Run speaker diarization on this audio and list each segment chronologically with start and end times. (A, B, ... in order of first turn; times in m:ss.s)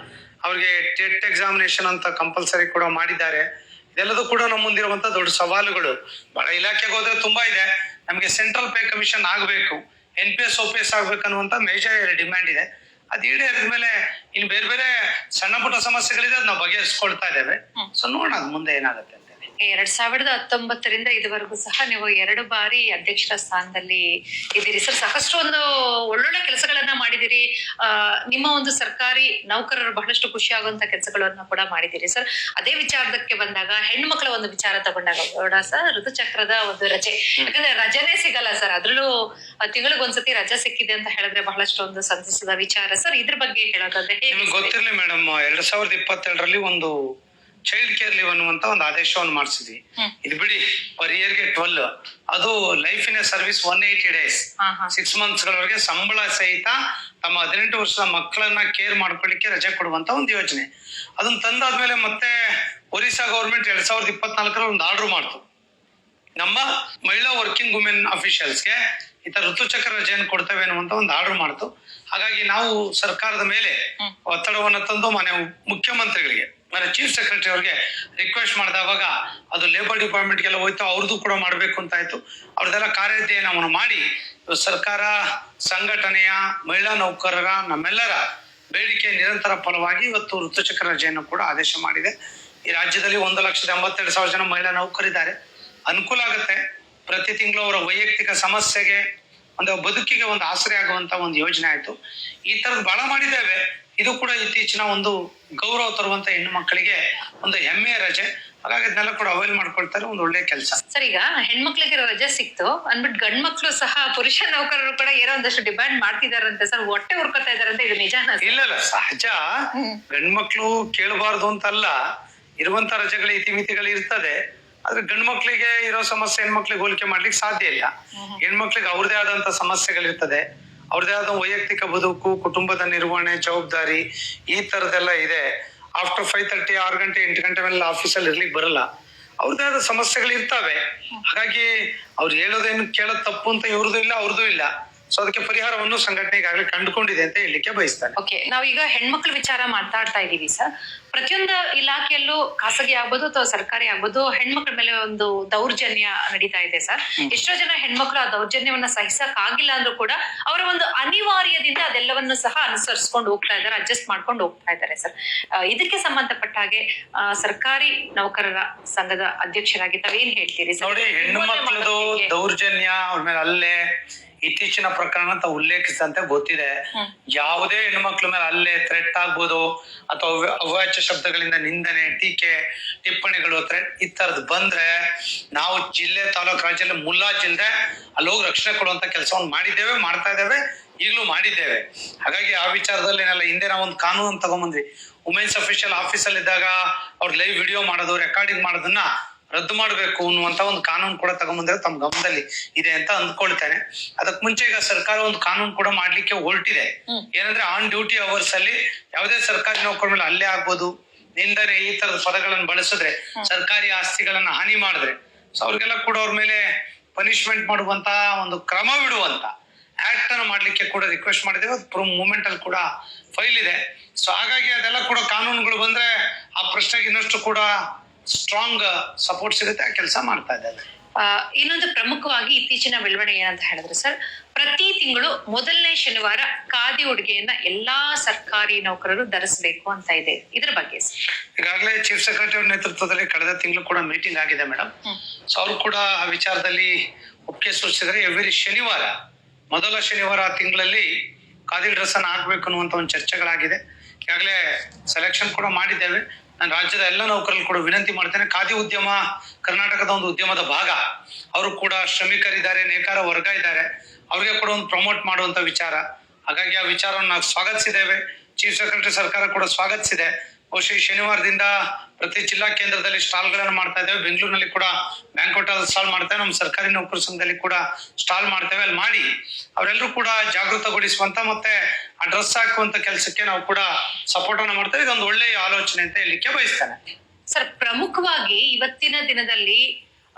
0:00.4-0:19.4 A
0:19.6-0:24.0 B
0:24.6-0:39.1 B
0:39.6-0:44.7 B
0:44.3-0:46.9 A
0:47.7-1:00.7 A
0:54.6-0:54.9 B
1:01.2-1:02.3 A
1:02.9-1:05.4 A
1:06.4-1:25.1 A
1:25.7-1:28.2 A
1:28.7-1:32.1 A
1:32.7-1:35.3 A
1:35.9-1:39.0 A
1:39.6-1:42.0 A
1:42.5-1:50.8 A
1:50.9-1:58.6 B
1:58.4-1:59.4 A
1:59.8-2:00.0 B
2:00.1-2:02.0 A
2:02.6-2:07.9 A
2:08.2-2:08.4 B
2:08.4-2:15.4 A
2:16.0-2:18.8 A
2:19.4-2:28.2 A
2:28.2-2:52.3 B
2:50.8-2:53.8 A
2:54.4-2:56.8 A
2:57.3-3:04.9 A
3:05.5-3:36.6 A
3:37.2-3:39.5 A
3:40.0-3:46.1 A
3:46.6-3:47.7 A
3:48.3-3:50.8 A
3:51.2-4:01.1 B
4:01.6-4:04.9 A
4:05.5-4:06.9 A
4:07.5-4:09.1 A
4:09.7-4:11.1 A
4:11.7-4:21.0 A
4:21.6-4:47.0 A
4:47.5-4:49.8 B